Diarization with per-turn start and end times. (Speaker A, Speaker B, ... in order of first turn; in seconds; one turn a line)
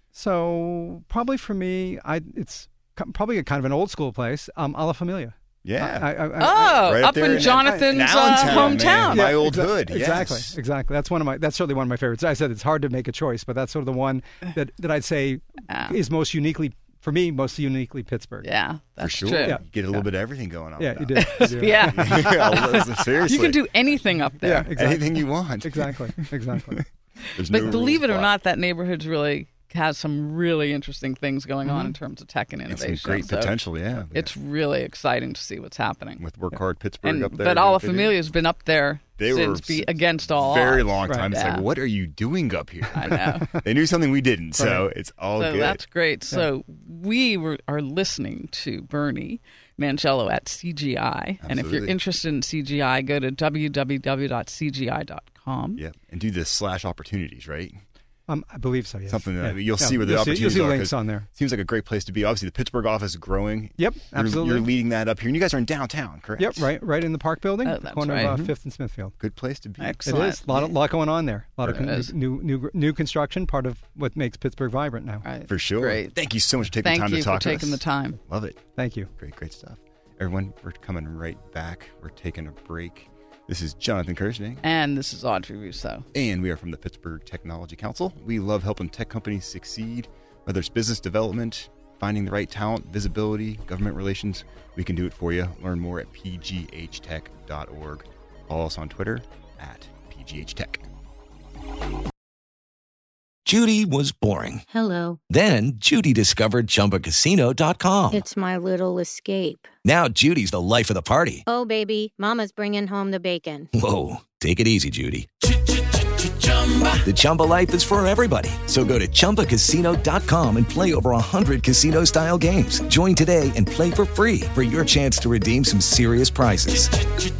Speaker A: 0.1-18.5
Speaker B: 5.6-6.2
Speaker C: 6.4-9.3
Speaker B: 6.8-10.6
Speaker C: 15.7-15.9
Speaker C: 18.4-19.6
Speaker B: 19.0-23.9
Speaker A: 19.3-20.1
Speaker A: 20.8-22.8
Speaker C: 21.1-24.7
Speaker A: 24.4-26.8
Speaker B: 24.7-28.3
Speaker C: 27.5-36.2
Speaker A: 27.5-27.9
Speaker A: 31.6-31.9
Speaker B: 32.7-34.3
Speaker B: 36.2-38.2
Speaker C: 37.0-41.6
Speaker B: 39.2-45.8
Speaker A: 41.0-41.3
Speaker C: 42.9-43.5
Speaker A: 43.0-43.6
Speaker A: 44.5-44.9
Speaker C: 45.4-55.8
Speaker B: 51.4-52.0
Speaker B: 55.8-57.8
Speaker A: 58.3-61.3
Speaker B: 59.1-66.7
Speaker A: 63.8-64.7
Speaker A: 66.4-69.1
Speaker C: 67.6-68.3
Speaker B: 68.2-68.5
Speaker B: 69.2-70.6
Speaker C: 69.8-70.7
Speaker A: 70.0-75.3
Speaker C: 71.6-72.1
Speaker C: 75.2-76.2
Speaker B: 75.5-78.6
Speaker C: 76.8-78.2
Speaker A: 78.7-79.1
Speaker B: 79.2-84.6
Speaker C: 84.6-86.0
Speaker B: 86.1-100.8
Speaker D: 103.4-104.6
Speaker E: 104.7-105.1
Speaker D: 105.3-108.2
Speaker E: 108.1-109.7
Speaker D: 109.8-111.4
Speaker E: 111.5-113.7
Speaker D: 113.7-115.3
Speaker D: 116.7-127.1